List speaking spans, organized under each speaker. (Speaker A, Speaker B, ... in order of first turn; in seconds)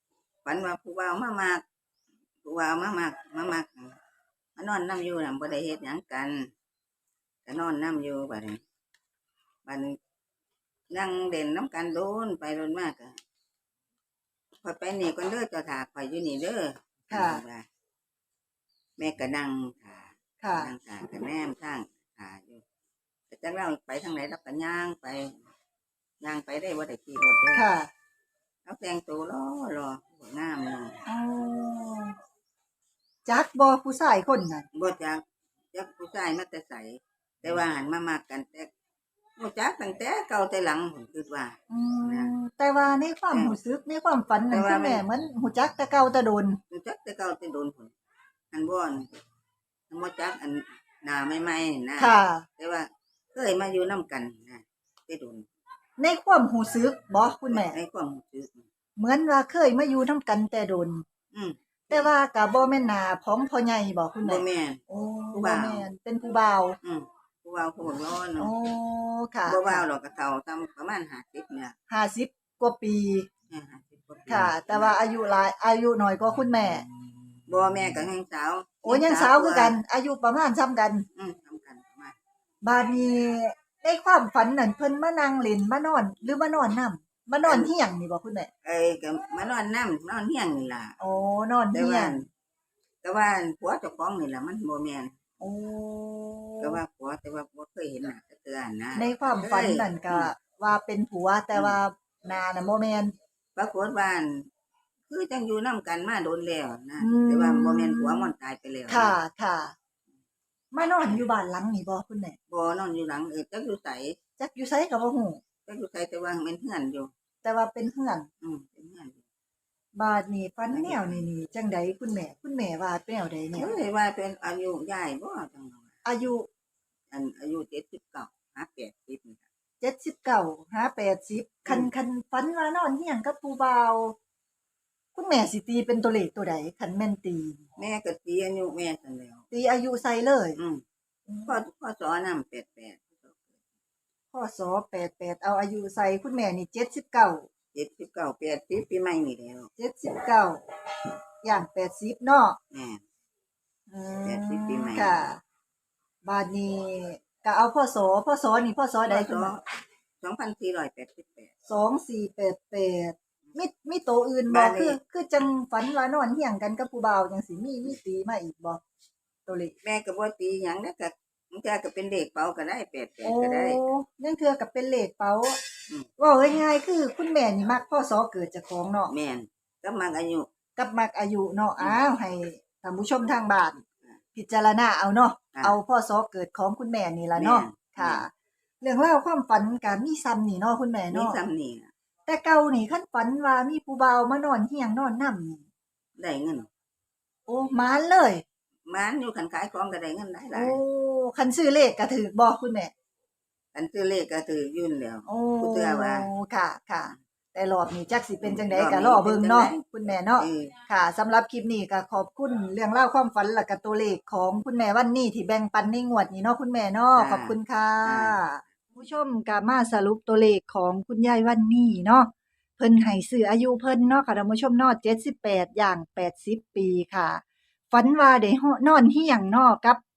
Speaker A: 0.4-1.6, 2.4-4.0, 4.6-6.5, 7.5-8.6, 9.7-9.9, 10.9-13.2, 14.6-17.6, 19.0-22.6, 23.3-25.4, 26.2-27.6, 28.6-31.0, 34.7-38.7, 39.4-42.3, 43.3-43.6, 44.5-45.0, 46.7-47.9, 48.5-49.1, 49.9-55.5, 57.5-58.6, 61.3-62.1, 64.2-64.8, 65.3-65.9, 66.8-68.5, 69.5-71.7, 73.5-75.0, 77.5-79.8, 81.1-82.1, 87.4-87.7, 88.6-91.0, 91.7-92.3, 93.0-95.1, 96.6-100.3, 103.5-104.5, 105.1-109.2, 112.5-114.2, 115.7-117.1, 118.4-119.2, 120.7-121.2, 123.5-125.9, 127.1-129.4, 137.8-139.4, 140.6-140.8, 141.4-143.4, 147.7-149.7, 152.7-153.0, 154.2-155.2, 159.1-159.6, 160.2-161.5, 164.5-165.0, 169.8-173.8, 179.1-180.5, 187.3-188.2, 191.1-191.9, 196.2-196.7, 198.8-200.8, 203.7-206.3, 208.4-210.8, 217.2-218.4
Speaker B: 17.1-17.4, 20.4-20.7, 27.5-27.9, 31.1-32.1, 33.2-34.6, 41.7-46.6, 52.0-52.5, 56.0-57.8, 59.0-61.0, 61.9-66.8, 68.4-69.8, 71.9-73.3, 74.3-76.8, 78.8-81.0, 82.6-88.5, 91.0-92.2, 95.4-96.8, 99.0-103.1, 107.0-108.3, 108.9-109.7, 110.7-112.4, 114.4-115.4, 117.4-118.3, 119.9-123.7, 126.0-126.5, 129.8-134.1, 135.1-137.6, 139.5-140.6, 141.3-141.6, 144.3-147.5, 149.8-150.6, 151.4-152.6, 153.9-155.4, 156.2-159.5, 161.7-168.8, 169.4-169.7, 173.2-175.6, 176.2-179.1, 180.8-183.8, 184.3-188.3, 188.8-191.4, 192.2-195.7, 197.5-198.4, 200.5-202.9, 205.2-230.0